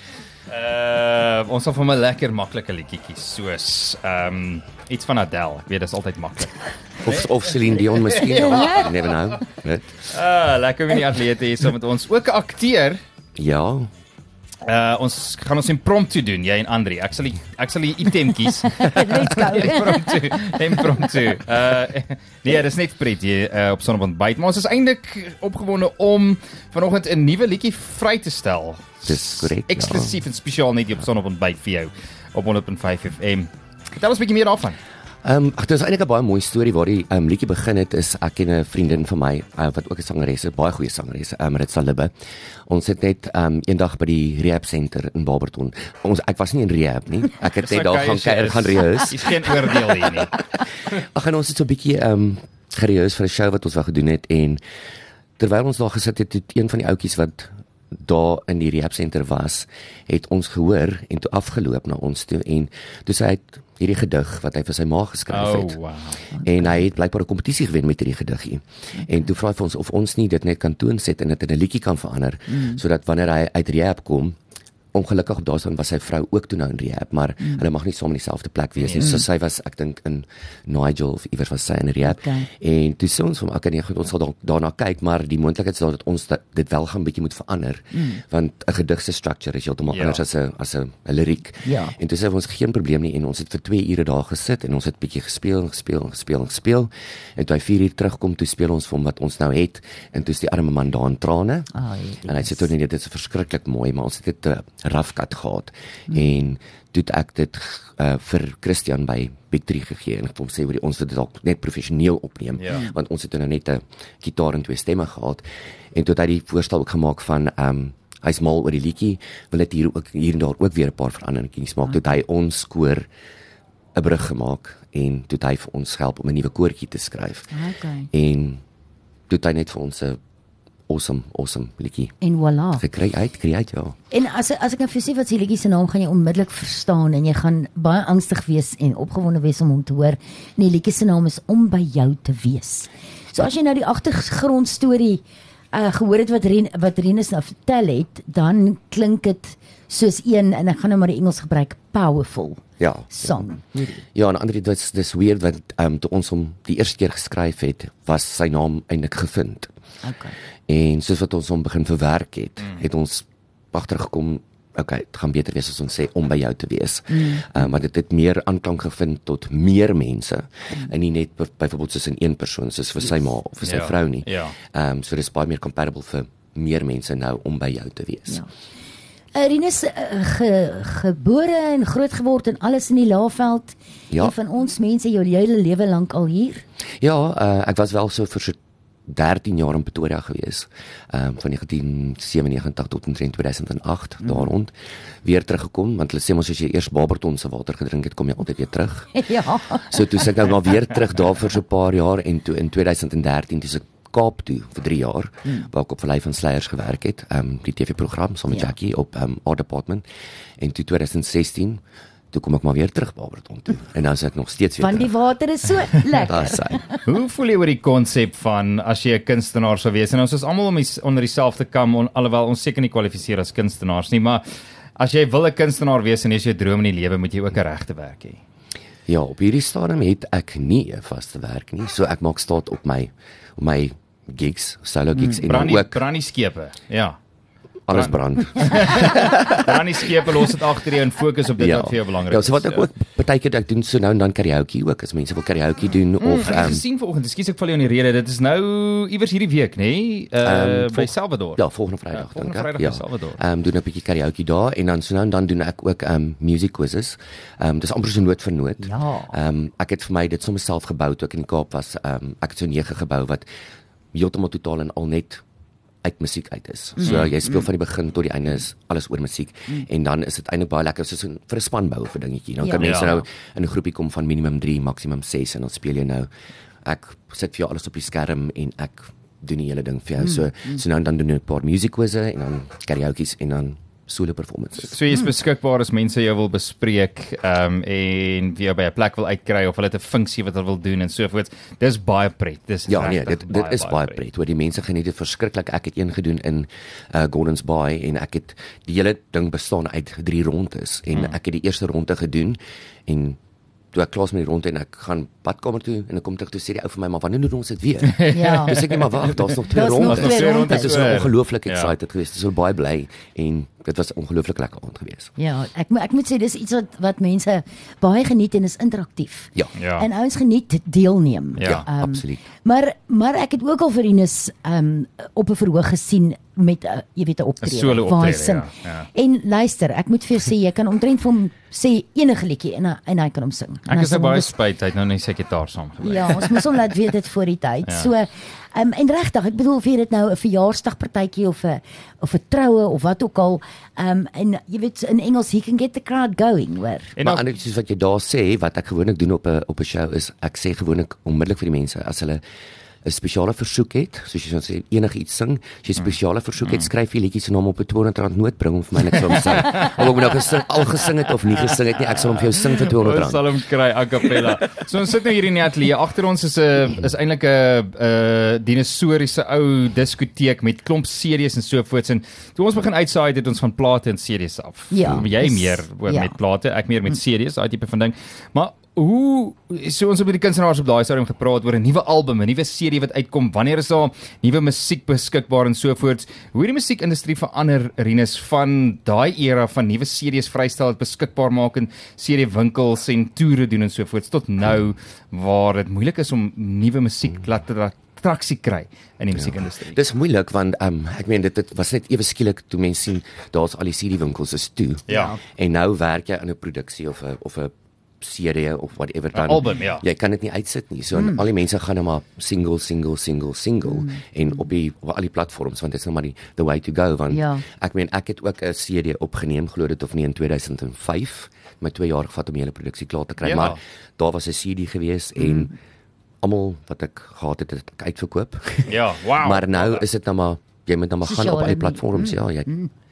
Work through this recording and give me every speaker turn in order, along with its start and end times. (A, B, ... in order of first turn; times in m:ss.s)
0:00.5-0:06.5 A
0:07.0-0:10.0 B
0:08.1-0:08.7 A
0:08.4-0:08.9 C
0:10.1-0:13.0 A
0:13.4-0:13.9 B
0:14.6-0:34.8 A
0:18.6-0:20.2 C
0:29.1-0:30.2 B
0:35.2-0:42.1 B
0:42.7-0:49.7 B
0:47.4-0:50.4 A
0:50.9-0:54.6 B
0:55.4-1:05.8 B
1:05.3-1:06.2 A
1:06.3-1:06.8 C
1:06.4-1:14.4 B
1:12.5-1:12.8 C
1:14.9-1:41.7 B
1:18.8-1:19.1 A
1:22.1-1:22.5 C
1:27.9-1:28.2 C
1:29.9-1:30.2 A
1:31.6-1:31.9 C
1:41.7-1:42.6 C
1:42.2-2:03.0 B
1:52.6-1:52.8 A
2:04.0-2:07.5 B
2:07.5-2:08.1 C
2:08.1-2:08.6 B
2:09.3-2:10.2 B
2:10.9-2:12.1 B
2:12.2-2:12.8 C
2:12.8-2:13.9 B
2:14.1-2:34.0 C
2:32.8-2:33.4 B
2:34.1-2:39.7 B
2:40.0-2:40.3 C
2:40.7-2:58.4 B
2:47.1-2:47.5 C
2:53.6-2:54.6 A
2:59.3-3:06.6 C
3:07.0-3:14.7 B
3:14.2-3:14.5 C
3:15.2-3:19.2 B
3:19.1-3:20.3 C
3:19.8-3:30.0 B
3:30.6-3:31.8 B
3:32.3-3:35.1 B
3:34.8-3:37.0 C
3:36.2-3:36.8 B
3:37.0-3:44.4 A
3:45.0-3:48.4 A
3:49.1-3:56.0 B
3:55.1-3:55.4 C
3:55.4-3:57.2 A
3:57.9-3:59.6 B
3:57.9-4:02.9 A
4:01.6-4:06.8 B
4:06.2-4:13.4 A
4:10.4-4:23.4 B
4:18.8-4:19.3 C
4:24.1-4:25.4 B
4:26.0-4:36.3 B
4:27.0-4:27.7 C
4:27.0-4:27.3 A
4:32.6-4:33.2 C
4:32.8-4:33.2 A
4:36.8-4:45.0 B
4:40.2-4:40.8 C
4:44.8-4:54.2 A
4:52.9-5:03.4 B
5:03.9-5:15.3 B
5:08.0-5:11.9 A
5:08.3-5:08.8 C
5:09.7-5:11.2 C
5:15.4-5:34.5 C
5:19.8-5:20.1 A
5:21.6-5:21.8 A
5:21.6-5:22.4 B
5:27.6-5:29.1 A
5:33.9-5:36.6 A
5:36.0-5:47.1 C
5:47.2-5:47.4 A
5:47.2-5:52.4 B
5:53.0-6:03.4 B
5:56.0-5:56.9 A
5:59.2-6:00.1 A
6:02.4-6:40.0 A
6:14.9-6:16.4 C
6:39.3-7:05.7 B
6:45.1-6:45.3 A
6:45.1-6:45.4 C
6:49.3-6:50.0 A
6:53.8-6:54.2 C
6:57.3-6:57.6 C
7:03.4-7:03.8 A
7:05.4-7:05.7 C
7:06.4-7:12.7 B
7:08.9-7:10.0 A
7:11.2-7:12.9 C